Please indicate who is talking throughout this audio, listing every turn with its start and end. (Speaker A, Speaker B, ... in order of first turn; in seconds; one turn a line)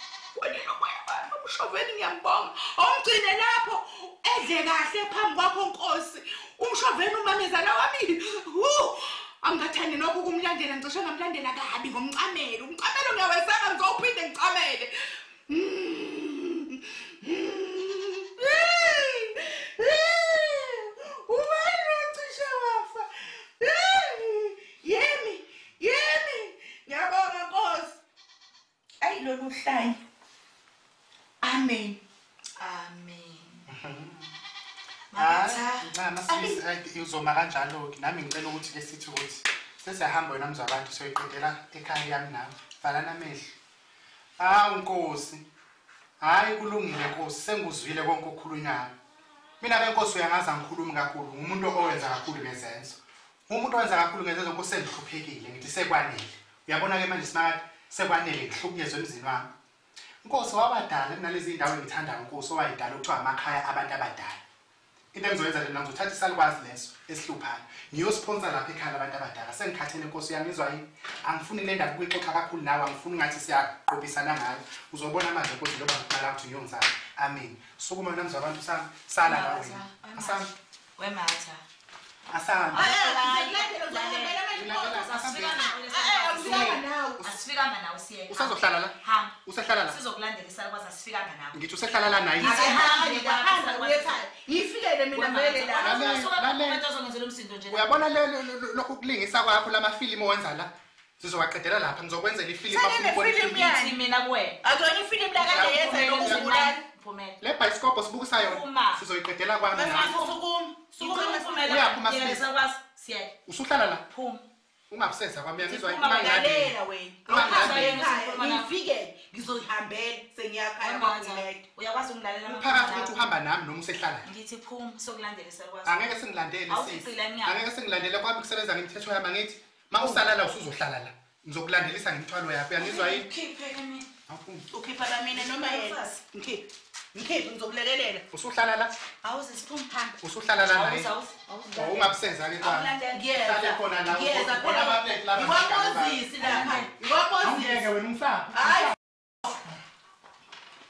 Speaker A: 0.3-28.0
Speaker A: 29.0-30.0
Speaker A: 31.4-32.0
Speaker B: 32.6-33.6
Speaker C: 33.7-34.3
Speaker B: 35.1-35.9
Speaker C: 35.1-43.5
Speaker A: 36.3-36.6
Speaker C: 44.4-45.4
Speaker C: 46.2-48.9
Speaker C: 49.6-59.5
Speaker C: 60.2-64.4
Speaker C: 65.1-80.5
Speaker B: 79.2-81.6
Speaker C: 82.3-82.9
Speaker B: 82.7-84.4
Speaker A: 82.7-87.3
Speaker C: 84.5-85.7
Speaker B: 84.9-91.6
Speaker C: 88.3-90.0
Speaker C: 91.5-92.6
Speaker B: 92.4-94.3
Speaker A: 92.4-96.0
Speaker B: 95.1-97.9
Speaker C: 95.8-96.9
Speaker C: 97.7-103.6
Speaker A: 102.7-104.0
Speaker B: 103.5-104.6
Speaker A: 104.6-106.8
Speaker B: 105.4-107.4
Speaker C: 105.4-106.5
Speaker C: 107.4-110.2
Speaker B: 108.3-109.0
Speaker A: 109.7-111.8
Speaker B: 109.8-110.4
Speaker B: 111.0-113.4
Speaker C: 111.7-112.4
Speaker C: 113.5-114.0
Speaker B: 114.0-114.4
Speaker C: 114.9-116.8
Speaker B: 115.7-116.2
Speaker A: 115.8-121.6
Speaker C: 117.3-118.0
Speaker B: 117.3-118.7
Speaker B: 120.8-123.2
Speaker C: 122.5-124.3
Speaker B: 124.2-126.1
Speaker C: 125.8-133.3
Speaker B: 126.7-127.6
Speaker B: 132.8-134.1
Speaker C: 134.3-134.7
Speaker A: 134.7-138.2
Speaker B: 135.3-136.2
Speaker C: 138.3-138.9
Speaker B: 139.2-139.9
Speaker A: 139.9-140.2
Speaker C: 140.2-141.1
Speaker B: 140.7-142.1
Speaker C: 141.7-146.9
Speaker A: 142.7-147.9
Speaker B: 142.7-143.2
Speaker B: 146.4-146.9
Speaker C: 147.4-149.0
Speaker A: 148.5-149.0